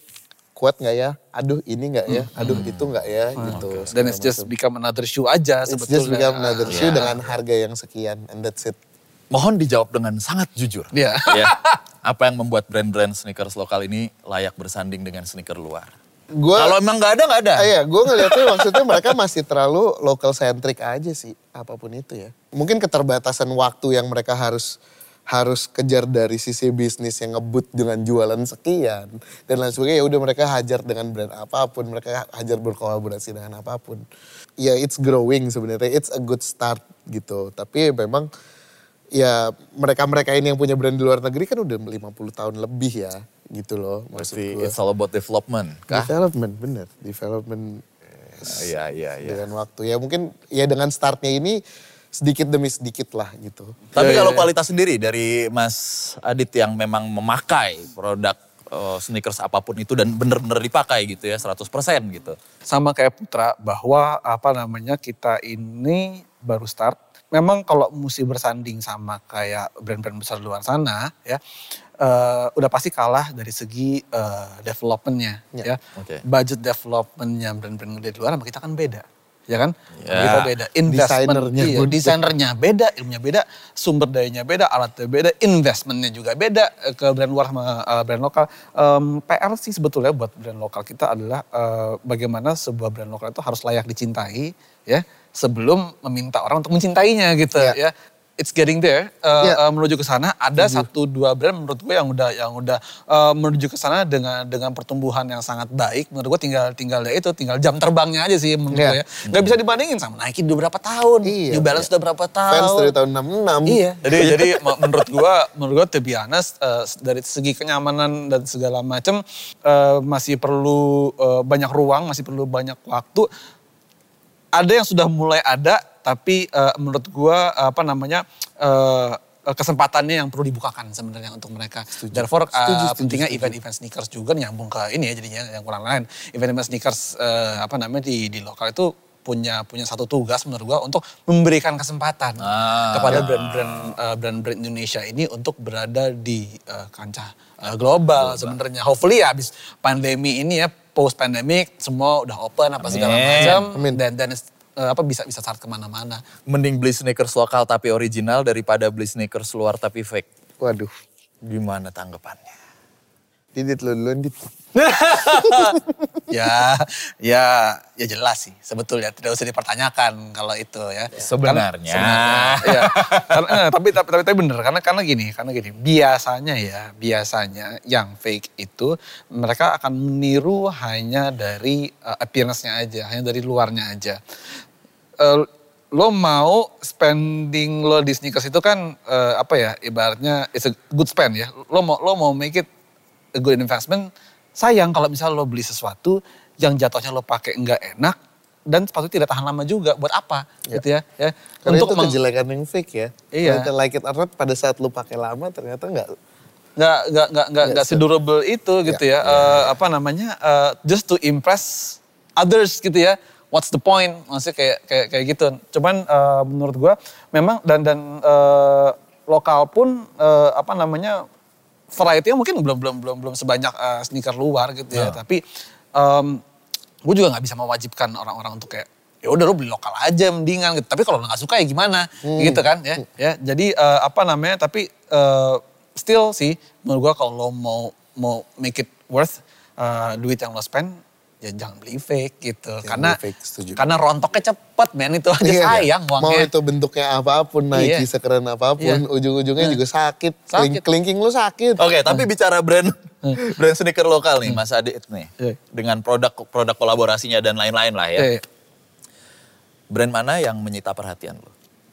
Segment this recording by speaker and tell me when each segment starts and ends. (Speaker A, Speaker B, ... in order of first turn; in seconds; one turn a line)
Speaker A: 0.6-4.5
Speaker B: 2.4-3.9
Speaker C: 3.4-7.1
Speaker A: 5.7-8.8
Speaker B: 6.7-7.2
Speaker B: 9.3-15.9
Speaker C: 10.9-11.8
Speaker A: 16.4-16.8
Speaker B: 16.6-17.7
Speaker A: 17.6-24.8
Speaker A: 25.3-34.0
Speaker A: 34.6-38.3
Speaker A: 39.1-44.8
Speaker B: 44.2-46.1
Speaker A: 45.9-47.9
Speaker A: 48.4-48.7
Speaker B: 48.5-49.4
Speaker A: 49.2-51.6
Speaker A: 52.1-53.8
Speaker B: 53.9-62.4
Speaker C: 54.0-54.5
Speaker C: 62.7-71.4
Speaker C: 72.0-112.9
Speaker B: 76.0-76.2
Speaker B: 80.0-80.5
Speaker A: 80.9-82.3
Speaker A: 100.6-100.9
Speaker A: 108.7-109.0
Speaker B: 109.3-109.5
Speaker A: 111.2-111.9
Speaker A: 112.5-113.8
Speaker C: 113.7-123.3
Speaker B: 114.1-115.0
Speaker C: 124.6-156.2
Speaker A: 131.9-133.6
Speaker B: 142.4-144.0
Speaker B: 148.2-148.6
Speaker B: 152.8-153.6
Speaker A: 153.4-154.0
Speaker B: 156.5-160.3
Speaker A: 160.6-160.9
Speaker B: 161.4-162.5
Speaker A: 163.6-164.4
Speaker C: 164.8-184.2
Speaker A: 165.3-166.1
Speaker B: 171.1-173.5
Speaker C: 185.2-192.7
Speaker C: 193.4-198.2
Speaker C: 198.7-202.2
Speaker A: 201.7-206.1
Speaker C: 203.3-203.7
Speaker C: 206.8-221.2
Speaker A: 207.6-208.0
Speaker B: 209.2-209.7
Speaker C: 221.9-225.4
Speaker B: 224.9-225.2
Speaker C: 225.9-226.4
Speaker C: 227.1-243.2
Speaker A: 232.2-232.7
Speaker A: 242.8-243.8
Speaker C: 243.8-246.5
Speaker A: 245.4-251.8
Speaker C: 247.7-248.1
Speaker C: 250.5-250.8
Speaker B: 251.8-258.3
Speaker C: 258.2-258.4
Speaker B: 259.9-261.5